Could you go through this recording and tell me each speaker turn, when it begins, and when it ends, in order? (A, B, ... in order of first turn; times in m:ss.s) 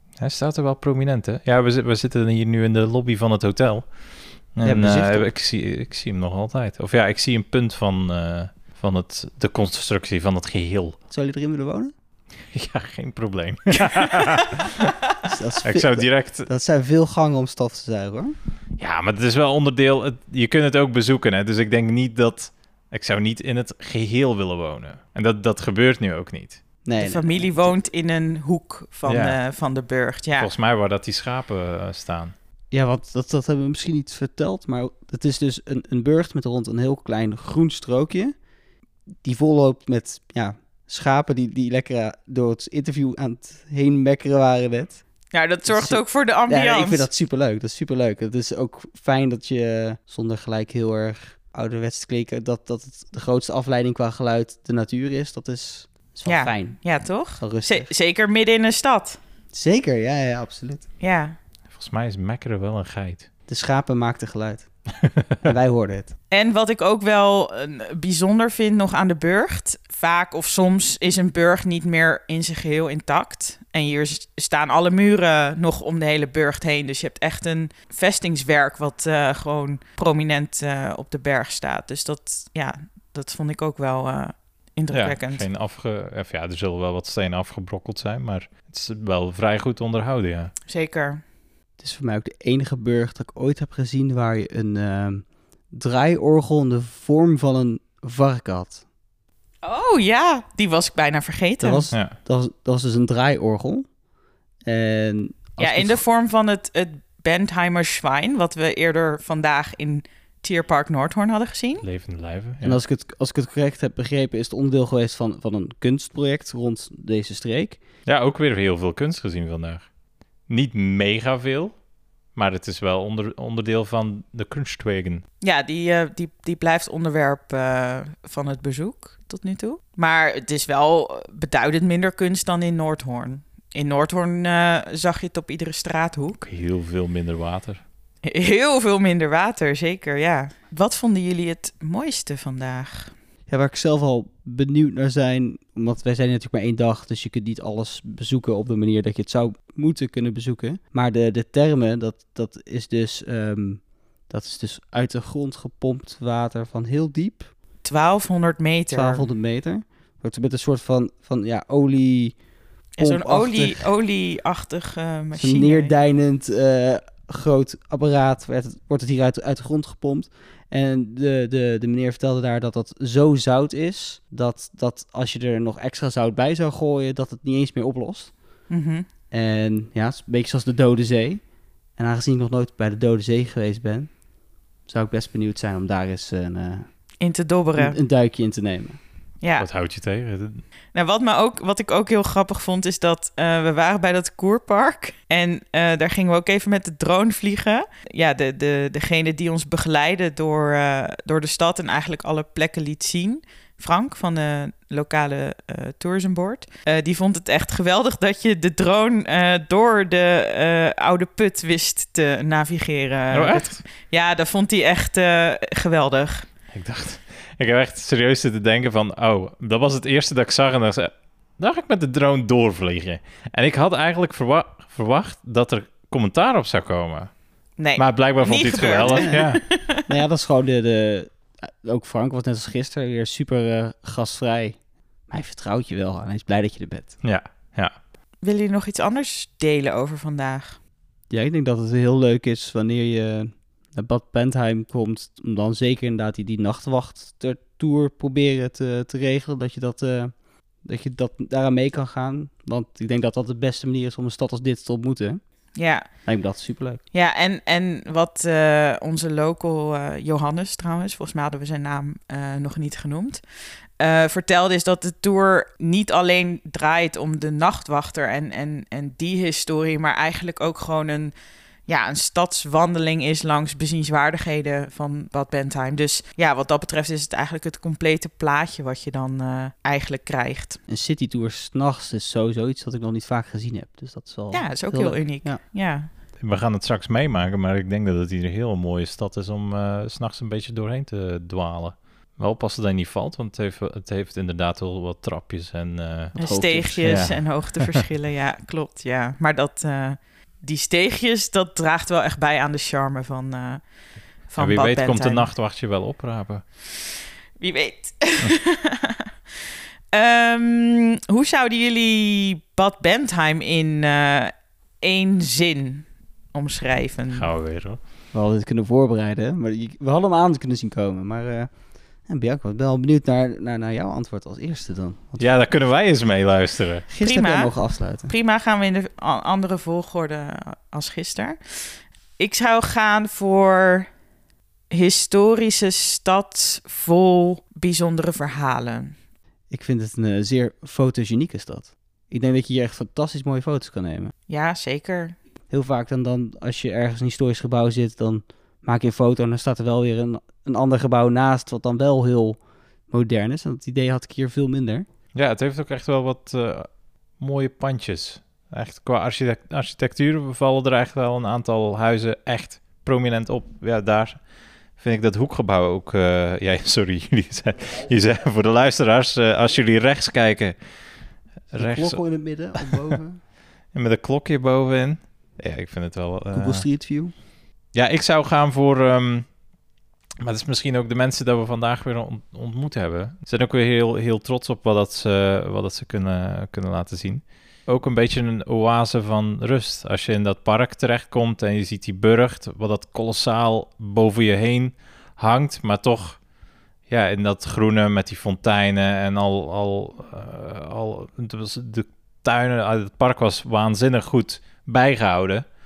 0:00.2-0:11.0 A
0:04.6-0:05.3 B
0:11.1-0:11.9 B
0:12.5-0:14.9 A
0:15.2-0:18.3 B
0:15.6-0:16.5 A
0:18.8-0:26.6 A
0:26.8-0:27.7 B
0:27.0-0:30.5 C
0:29.0-0:29.4 A
0:30.4-0:32.3 A
0:32.7-0:38.3 B
0:39.2-0:45.0 B
0:45.3-0:47.1 C
0:45.7-0:57.9 B
0:56.2-0:59.2 C
0:59.5-1:00.8 B
1:01.0-1:01.4 C
1:01.7-1:03.2 A
1:03.5-1:04.7 B
1:05.4-1:06.1 B
1:06.3-1:25.5 C
1:24.9-1:30.5 A
1:30.7-1:31.2 C
1:31.8-1:38.8 B
1:39.6-1:41.9 C
1:41.6-1:43.9 B
1:41.9-1:42.2 A
1:44.6-1:46.0 B
1:45.6-1:51.8 C
1:51.8-1:52.8 A
1:52.6-1:57.8 B
1:58.0-1:59.9 A
2:00.5-2:05.2 A
2:05.4-2:16.4 C
2:16.4-2:17.8 A
2:18.2-2:23.1 C
2:23.5-2:37.5 B
2:37.8-2:39.2 C
2:38.9-2:42.4 B
2:42.9-2:43.8 B
2:43.0-2:45.9 C
2:45.4-2:58.6 B
2:58.7-2:59.0 C
2:59.3-3:04.2 B
3:04.8-3:07.0 B
3:07.2-3:08.0 C
3:07.8-3:09.0 B
3:09.4-3:09.7 C
3:09.6-3:10.6 A
3:10.9-3:36.5 C
3:33.3-3:33.8 A
3:36.7-3:49.6 A
3:47.8-3:50.0 C
3:49.1-3:49.4 B
3:50.1-3:57.2 B
3:57.2-3:58.0 A
3:58.4-4:00.8 C
4:01.3-4:15.4 B
4:15.7-4:16.1 C
4:16.1-4:17.0 B
4:17.1-4:23.4 C
4:24.0-4:31.3 C
4:31.8-4:40.8 C
4:40.9-4:45.6 B
4:44.5-4:46.1 C
4:46.4-4:56.4 A
4:56.3-4:57.4 B
4:56.4-5:03.8 C
4:57.0-4:57.8 A
5:04.4-5:05.5 C
5:04.6-5:06.6 A
5:07.6-5:09.2 C
5:10.1-5:17.5 C
5:17.3-5:18.0 A
5:18.3-5:21.7 B
5:22.2-5:25.5 B
5:25.4-5:27.0 A
5:27.1-5:28.3 B
5:27.2-5:34.1 C
5:34.9-5:39.1 C
5:39.7-5:44.3 B
5:44.5-5:45.4 C
5:45.7-5:55.0 B
5:55.3-6:13.2 A
6:11.8-6:13.4 B
6:13.9-6:16.9 A
6:16.5-6:17.3 B
6:17.9-6:19.6 A
6:20.4-6:36.4 A
6:37.1-6:45.7 A